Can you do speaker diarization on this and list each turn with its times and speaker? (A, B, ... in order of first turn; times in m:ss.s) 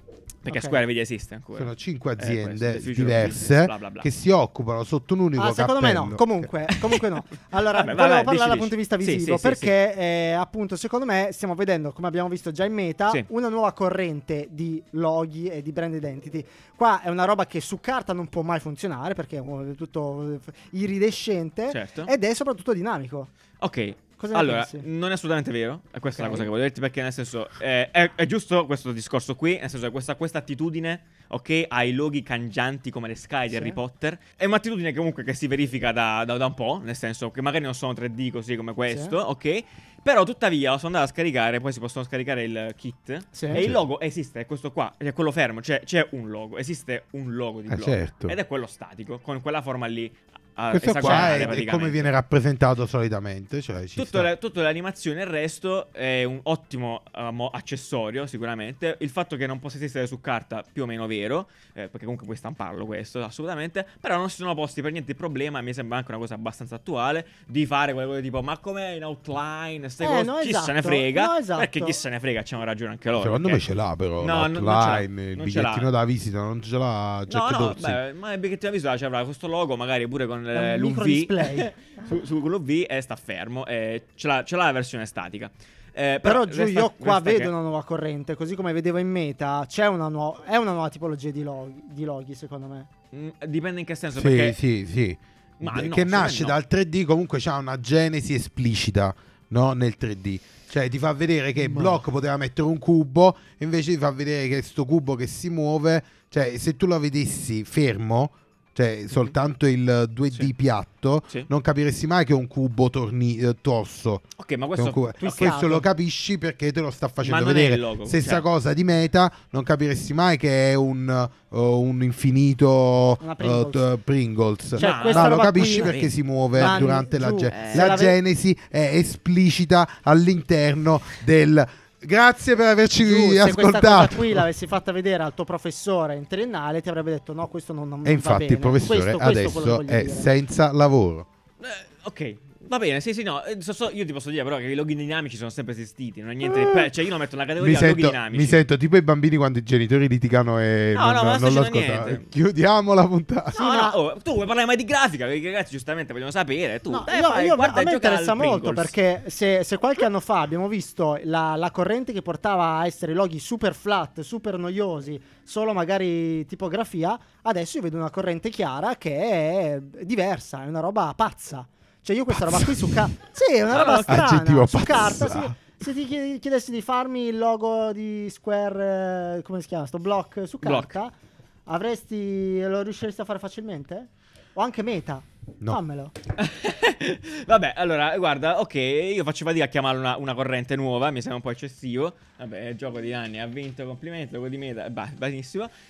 0:00.4-0:04.1 A
0:00.5-0:00.8 B
0:01.6-0:06.5 C
0:05.4-0:23.3 B
0:07.7-0:09.7 A
0:21.7-0:22.1 A
0:23.6-0:52.1 A
0:24.2-0:24.8 B
0:26.2-0:26.5 B
0:33.5-0:33.8 B
0:38.9-0:39.2 B
0:43.3-0:43.6 B
0:43.6-0:43.8 C
0:47.7-0:48.4 C
0:50.7-0:54.3 C
0:54.0-1:13.6 A
1:10.0-1:12.0 B
1:13.2-1:18.0 C
1:14.2-1:15.9 A
1:17.3-1:27.5 A
1:20.5-1:21.7 B
1:26.2-1:32.9 B
1:33.1-1:34.6 A
1:34.2-1:54.2 C
1:35.6-1:36.6 A
1:41.6-1:42.0 A
1:54.4-1:55.4 A
1:54.8-2:14.5 C
1:55.2-1:55.9 B
1:57.2-1:58.4 A
2:03.2-2:03.9 B
2:04.8-2:06.0 B
2:04.8-2:07.0 A
2:06.5-2:08.1 B
2:07.5-2:08.0 A
2:13.0-2:20.3 B
2:18.0-2:21.3 C
2:21.6-2:28.6 A
2:26.5-2:26.9 B
2:27.6-2:33.6 C
2:31.0-2:32.3 A
2:33.6-2:34.0 B
2:33.6-2:38.9 A
2:36.9-3:01.1 B
2:52.4-2:52.7 C
2:53.7-2:54.2 A
2:54.1-2:55.6 C
3:00.6-3:01.0 A
3:01.7-3:06.1 B
3:06.4-3:15.7 A